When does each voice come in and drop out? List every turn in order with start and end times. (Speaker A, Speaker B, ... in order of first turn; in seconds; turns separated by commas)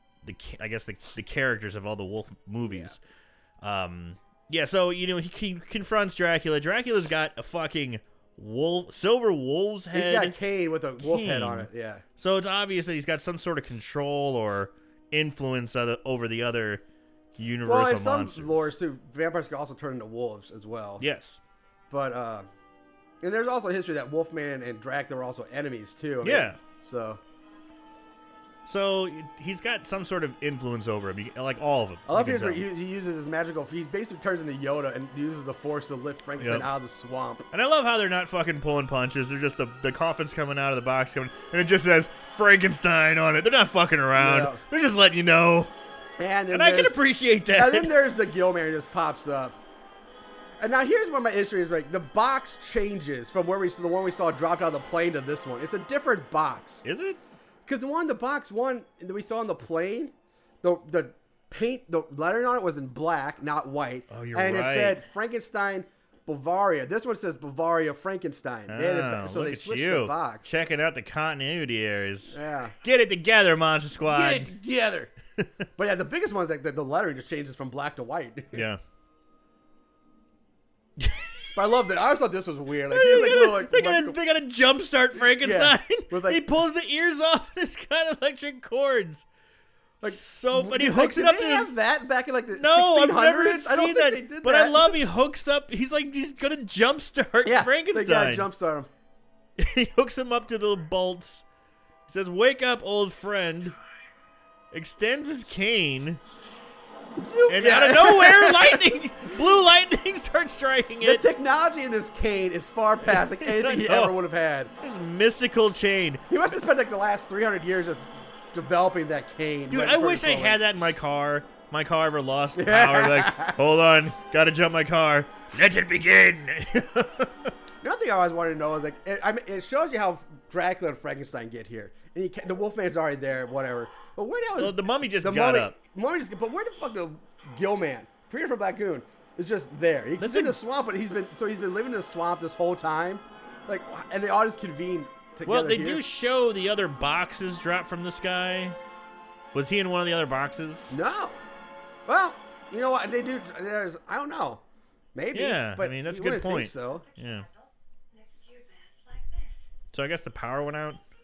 Speaker A: 0.2-3.0, Speaker B: 2.6-2.9, Speaker A: 3.6-10.4, Speaker B: 9.9-12.0, Speaker A: 11.0-16.8, Speaker A: 17.4-18.7, Speaker B: 17.6-21.0, Speaker A: 21.0-21.4, Speaker B: 21.9-22.5, Speaker B: 23.2-27.2, Speaker A: 26.2-26.6, Speaker A: 28.6-32.6, Speaker B: 32.1-37.5, Speaker A: 36.4-36.7, Speaker A: 37.5-45.7, Speaker B: 44.1-44.6, Speaker B: 46.2-47.0, Speaker A: 46.5-48.0, Speaker B: 47.5-49.6, Speaker B: 50.6-56.8, Speaker A: 56.8-57.2, Speaker B: 57.6-70.5, Speaker A: 64.1-65.0, Speaker A: 68.7-74.5, Speaker B: 72.3-72.7, Speaker B: 74.0-75.1, Speaker A: 75.4-75.7, Speaker B: 75.8-78.7, Speaker A: 78.5-78.8, Speaker A: 81.0-81.3, Speaker B: 81.5-84.2, Speaker A: 82.9-89.2, Speaker B: 85.1-86.4, Speaker B: 90.0-95.0, Speaker A: 90.0-91.7, Speaker A: 92.5-98.5, Speaker B: 97.4-98.9, Speaker A: 99.6-101.4, Speaker A: 102.1-103.7, Speaker A: 104.7-106.2, Speaker B: 107.2-109.0, Speaker A: 107.5-111.2, Speaker B: 111.0-114.7, Speaker A: 113.0-114.1, Speaker A: 114.8-116.5, Speaker B: 116.3-120.6, Speaker A: 119.7-127.5, Speaker B: 122.5-123.6, Speaker B: 127.8-146.0, Speaker A: 134.6-135.8, Speaker A: 140.2-140.6, Speaker A: 145.4-148.8, Speaker A: 149.5-150.9, Speaker B: 150.9-151.4, Speaker B: 152.1-154.6, Speaker B: 155.1-157.1, Speaker A: 155.3-157.4, Speaker C: 156.7-159.7, Speaker A: 159.9-161.0